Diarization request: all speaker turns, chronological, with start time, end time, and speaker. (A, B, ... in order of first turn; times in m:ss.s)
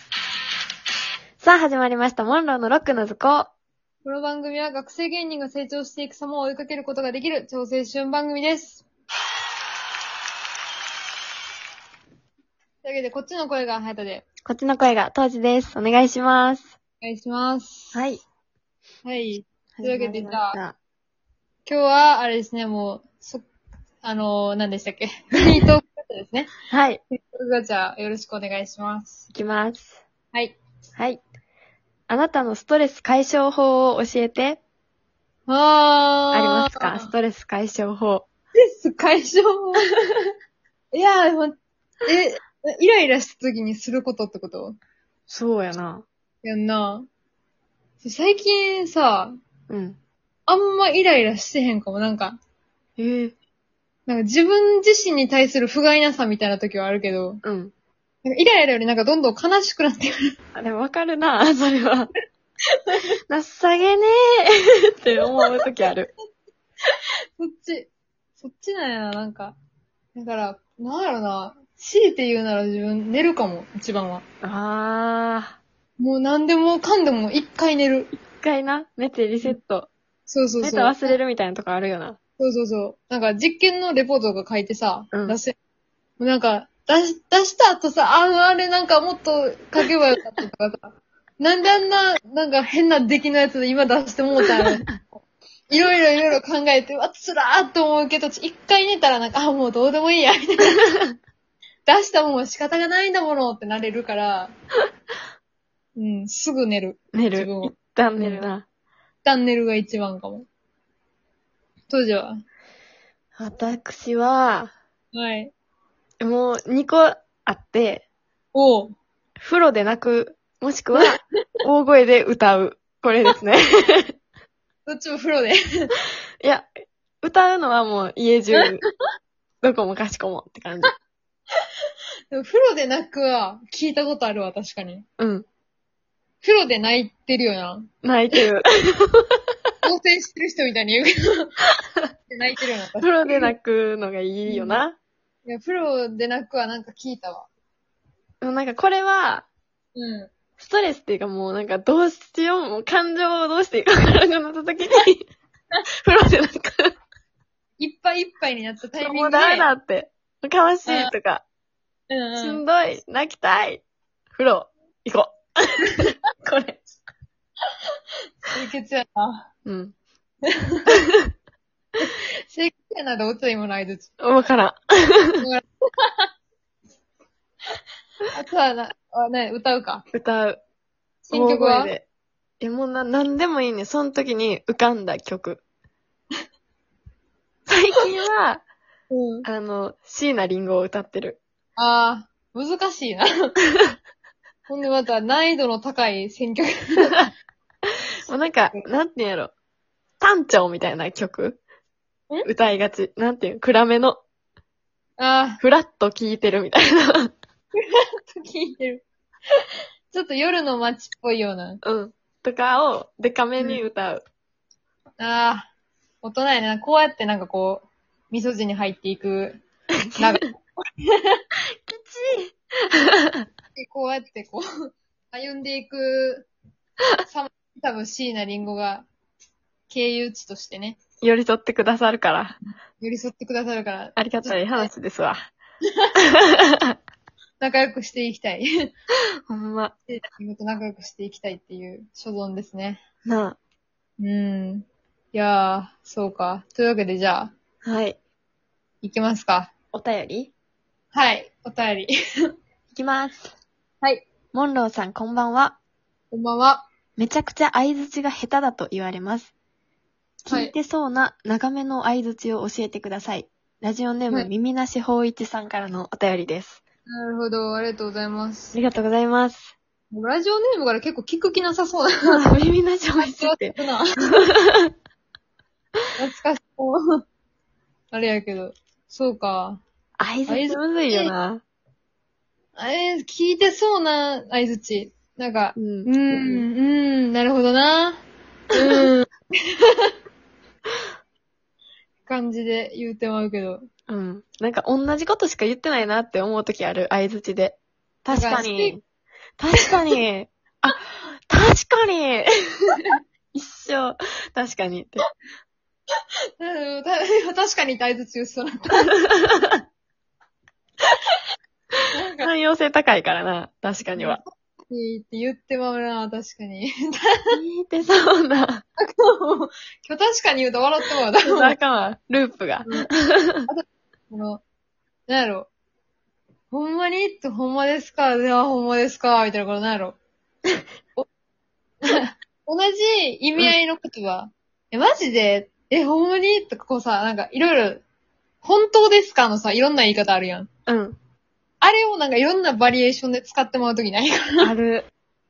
0:01.4-0:03.5 A
0:04.0-0:08.8 B
0:12.8-0:14.2 B
0:14.4-0:16.7 A
0:17.0-0:18.0 B
0:17.9-0:18.2 A
0:19.0-0:20.6 B
0:19.8-0:20.8 A
0:21.6-0:23.4 B
0:24.0-0:26.5 B
0:26.7-0:27.0 A
0:27.1-0:29.2 B
0:29.3-0:30.0 A
0:32.1-0:34.6 A
0:35.5-0:37.1 B
0:36.3-0:38.2 A
0:38.6-0:39.9 B
0:40.9-0:44.8 B
0:45.3-0:46.0 A
0:46.4-0:47.1 B
0:48.0-0:49.4 B
0:49.7-0:50.0 A
0:50.5-0:52.4 B
0:53.0-0:53.3 A
0:54.1-0:57.4 B
0:57.4-0:57.7 A
0:58.2-1:00.2 B
1:00.5-1:02.1 A
1:03.3-1:06.1 A
1:05.3-1:05.6 B
1:07.4-1:09.6 B
1:10.1-1:14.2 B
1:14.4-1:15.6 A
1:16.0-1:18.1 B
1:18.3-1:19.9 A
1:20.3-1:21.2 B
1:20.6-1:22.2 A
1:22.4-1:25.5 B
1:25.1-1:25.4 A
1:26.2-1:34.9 B
1:34.5-1:34.9 A
1:35.7-1:40.8 B
1:41.8-1:44.5 B
1:46.0-1:48.4 B
1:47.1-1:48.6 A
1:49.2-1:50.4 B
1:51.9-1:52.4 B
1:53.4-1:54.7 A
1:55.1-1:55.5 B
1:56.2-1:58.0 A
1:58.5-1:58.9 B
1:59.4-2:04.1 A
2:04.9-2:05.9 B
2:06.4-2:06.7 A
2:07.2-2:08.8 A
2:08.5-2:08.9 B
2:09.6-2:10.9 A
2:12.3-2:15.0 B
2:15.2-2:15.4 A
2:16.4-2:18.4 B
2:18.0-2:19.4 A
2:19.8-2:21.6 B
2:22.3-2:23.5 B
2:23.0-2:25.0 A
2:24.5-2:24.8 B
2:25.4-2:27.5 B
2:28.4-2:29.5 A
2:29.9-2:30.3 B
2:30.6-2:35.3 A
2:36.0-2:36.9 A
2:37.8-2:39.7 B
2:39.0-2:41.4 A
2:40.9-2:41.1 B
2:42.1-2:42.6 B
2:42.4-2:43.8 A
2:44.4-2:46.8 A
2:48.5-2:49.5 B
2:49.6-2:50.0 A
2:50.4-2:50.9 B
2:50.9-2:51.3 A
2:52.0-2:54.1 B
2:54.2-2:55.4 A
2:55.4-2:56.3 B
2:58.3-3:00.0 B
3:00.1-3:00.6 A
3:01.2-3:01.9 B
3:01.3-3:02.0 A
3:02.6-3:05.6 A
3:07.7-3:08.6 A
3:09.1-3:09.5 B
3:09.4-3:11.4 A
3:11.8-3:13.3 B
3:14.7-3:17.1 B
3:18.2-3:19.5 A
3:20.2-3:21.6 A
3:22.4-3:24.2 A
3:25.2-3:25.6 B
3:25.6-3:27.3 A
3:27.8-3:29.0 B
3:30.1-3:31.8 B
3:31.8-3:34.2 A
3:33.6-3:33.9 B
3:35.2-3:35.7 B
3:36.2-3:39.6 B
3:40.0-3:40.5 A
3:40.2-3:41.4 B
3:41.9-3:43.4 A
3:43.8-3:44.6 B
3:45.3-3:46.5 B
3:47.3-3:49.1 B
3:49.9-3:51.0 B
3:51.2-3:52.6 A
3:53.0-3:54.9 B
3:54.2-3:55.4 A
3:56.2-3:56.9 A
3:57.6-3:58.7 B
3:59.5-3:59.9 A
4:00.1-4:03.0 B
4:03.2-4:03.6 A
4:04.2-4:07.5 B
4:07.8-4:08.2 A
4:09.0-4:09.7 B
4:09.9-4:10.5 A
4:11.1-4:12.1 B
4:12.9-4:13.5 A
4:14.5-4:15.8 A
4:16.3-4:16.8 B
4:17.2-4:19.5 A
4:20.4-4:26.8 A
4:20.5-4:20.7 B
4:27.1-4:28.8 B
4:28.7-4:29.7 A
4:30.1-4:32.2 B
4:32.3-4:33.8 A
4:33.2-4:34.2 B
4:34.4-4:34.9 A
4:36.2-4:37.2 B
4:38.1-4:39.8 B
4:40.2-4:41.6 A
4:40.5-4:41.3 B
4:42.8-4:48.2 B
4:45.8-4:46.6 A
4:48.7-4:50.1 B
4:52.3-4:53.8 B
4:54.1-4:59.0 A
4:58.3-4:59.0 B
4:59.6-5:05.2 A
5:06.6-5:09.1 B
5:09.0-5:09.8 A
5:12.1-5:12.5 B
5:12.4-5:14.4 A
5:14.1-5:17.5 B
5:17.5-5:18.8 A
5:19.0-5:21.8 B
5:21.5-5:23.7 A
5:22.8-5:23.1 B
5:23.6-5:24.6 B
5:25.3-5:25.7 B
5:26.7-5:30.2 B
5:32.0-5:38.0 B
5:38.6-5:40.7 B
5:40.9-5:41.2 A
5:41.8-5:44.7 B
5:44.6-5:45.1 A